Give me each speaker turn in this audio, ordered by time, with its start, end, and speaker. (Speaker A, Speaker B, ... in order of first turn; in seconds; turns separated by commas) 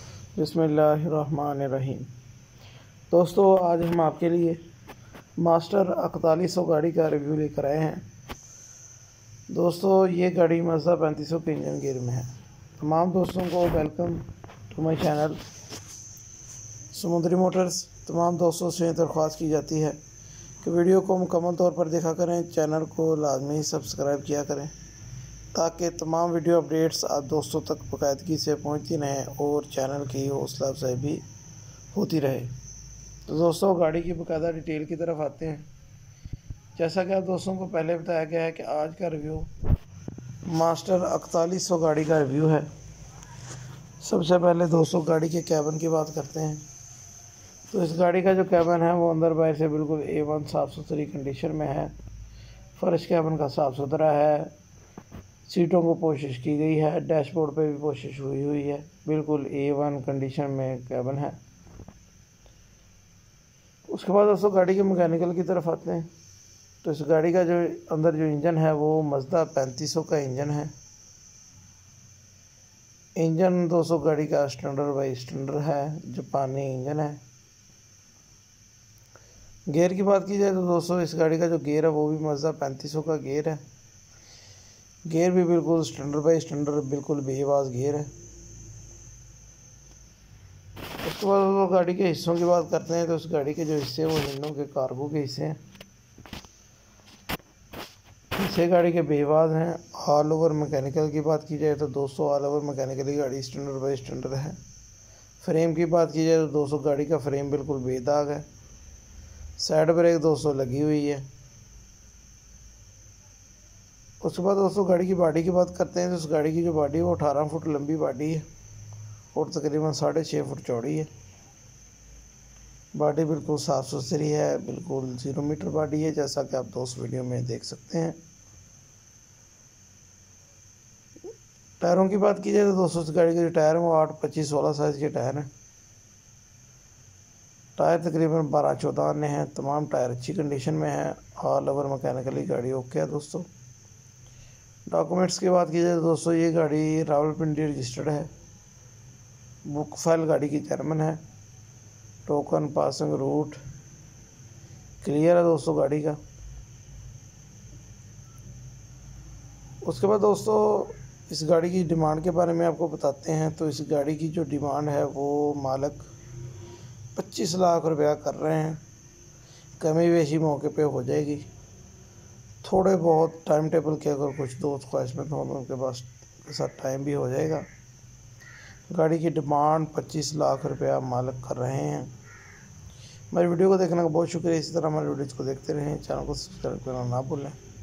Speaker A: 0.3-2.1, Speaker A: 3.1-4.6, Speaker A: 5.4-8.1, Speaker A: 9.5-15.4, Speaker A: 16.9-20.0, Speaker A: 20.6-24.7, Speaker A: 25.5-31.2, Speaker A: 31.9-32.5, Speaker A: 33.3-35.7, Speaker A: 36.8-39.5, Speaker A: 40.5-42.7, Speaker A: 44.0-46.6, Speaker A: 47.7-51.9, Speaker A: 52.8-54.5, Speaker A: 55.5-61.4, Speaker A: 63.9-66.1, Speaker A: 66.8-70.7, Speaker A: 73.2-77.2, Speaker A: 79.7-83.6, Speaker A: 85.1-88.1, Speaker A: 91.0-95.6, Speaker A: 98.3-104.6, Speaker A: 105.4-108.5, Speaker A: 109.6-111.3, Speaker A: 114.2-118.5, Speaker A: 119.3-121.1, Speaker A: 122.9-128.2, Speaker A: 131.8-135.5, Speaker A: 137.8-143.5, Speaker A: 144.9-148.3, Speaker A: 149.7-151.2, Speaker A: 152.3-153.6, Speaker A: 155.0-156.2, Speaker A: 159.8-166.1, Speaker A: 167.2-168.8, Speaker A: 169.8-171.4, Speaker A: 172.6-177.7, Speaker A: 178.9-182.1, Speaker A: 183.3-187.6